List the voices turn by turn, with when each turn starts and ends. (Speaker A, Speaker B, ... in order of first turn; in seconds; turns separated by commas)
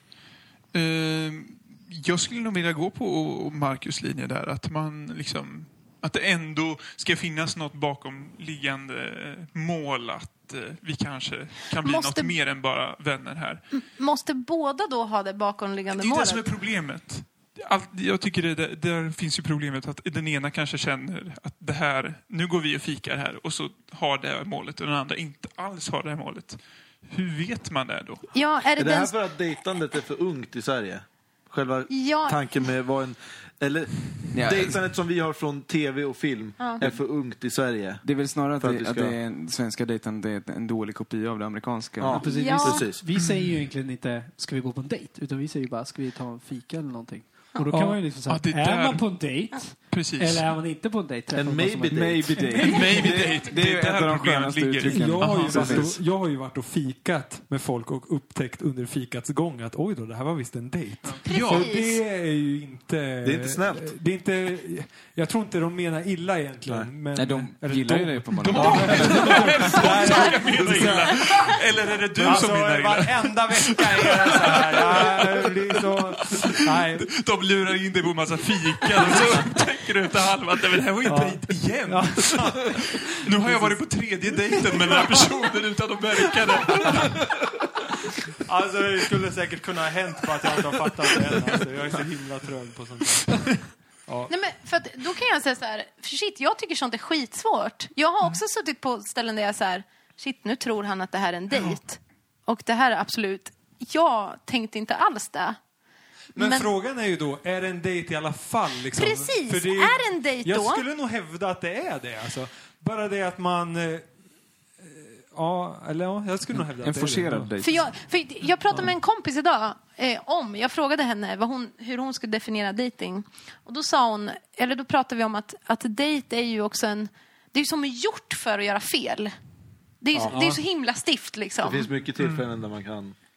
Speaker A: 0.7-13.6, Speaker B: 11.8-12.3, Speaker B: 13.7-16.5, Speaker A: 15.9-28.3, Speaker B: 28.3-29.2, Speaker C: 28.8-39.2, Speaker B: 31.9-32.7, Speaker D: 34.3-34.8, Speaker D: 38.0-42.2, Speaker C: 42.0-43.0, Speaker E: 42.1-52.9, Speaker B: 42.2-42.9, Speaker A: 43.1-43.6, Speaker F: 47.7-48.1, Speaker A: 48.2-50.5, Speaker C: 51.3-52.5, Speaker D: 51.9-55.9, Speaker A: 52.5-56.0, Speaker F: 54.9-71.3, Speaker A: 61.2-61.7, Speaker B: 61.2-62.0, Speaker C: 63.2-63.9, Speaker D: 67.1-69.7, Speaker A: 68.4-87.4, Speaker B: 70.0-70.4, Speaker F: 72.2-77.1, Speaker F: 79.0-79.4, Speaker F: 81.0-83.8, Speaker F: 84.7-85.0, Speaker F: 88.4-93.5, Speaker F: 94.1-94.3, Speaker B: 94.3-105.6, Speaker B: 106.3-106.7, Speaker F: 106.3-114.1, Speaker B: 109.0-110.8, Speaker F: 114.8-117.5, Speaker D: 116.5-117.8, Speaker B: 117.6-129.3, Speaker B: 130.0-131.9, Speaker C: 131.6-133.1, Speaker A: 132.2-132.5